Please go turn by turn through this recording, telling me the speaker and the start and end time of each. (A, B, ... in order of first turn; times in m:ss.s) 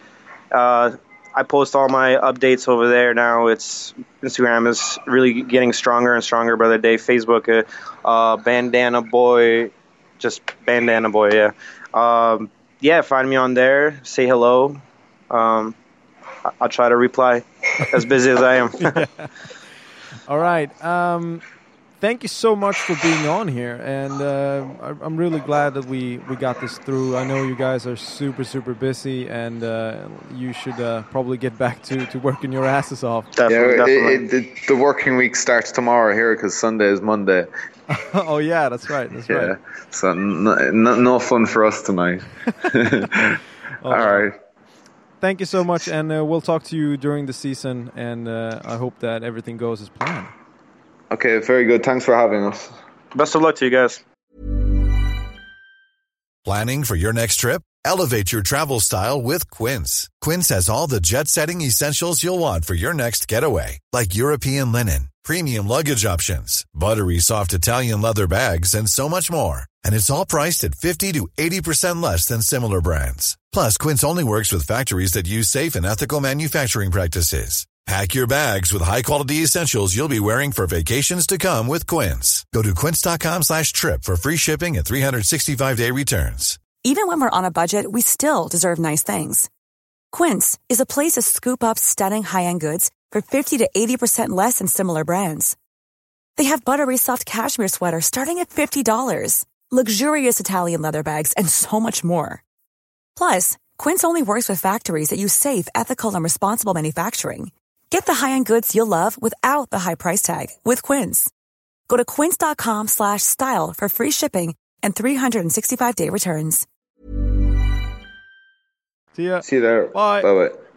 0:00.5-0:15.8 A
0:16.6-0:19.0 A
0:18.8-0:19.3 B
0:20.3-0:21.4 B
0:22.0-0:33.3 B
0:33.4-0:34.2 A
0:33.5-0:37.5 C
0:37.9-0:39.5 B
0:39.3-0:44.3 C
0:43.8-0:44.3 B
0:45.2-0:50.3 B
0:51.1-0:52.7 C
0:53.1-0:54.0 A
0:56.4-1:26.6 D
1:26.8-1:29.5 E
1:30.1-1:35.6 E
1:36.4-1:42.4 E
1:43.2-1:51.3 E
1:51.9-1:56.6 E
1:59.1-2:00.3 B
1:59.4-2:00.6 C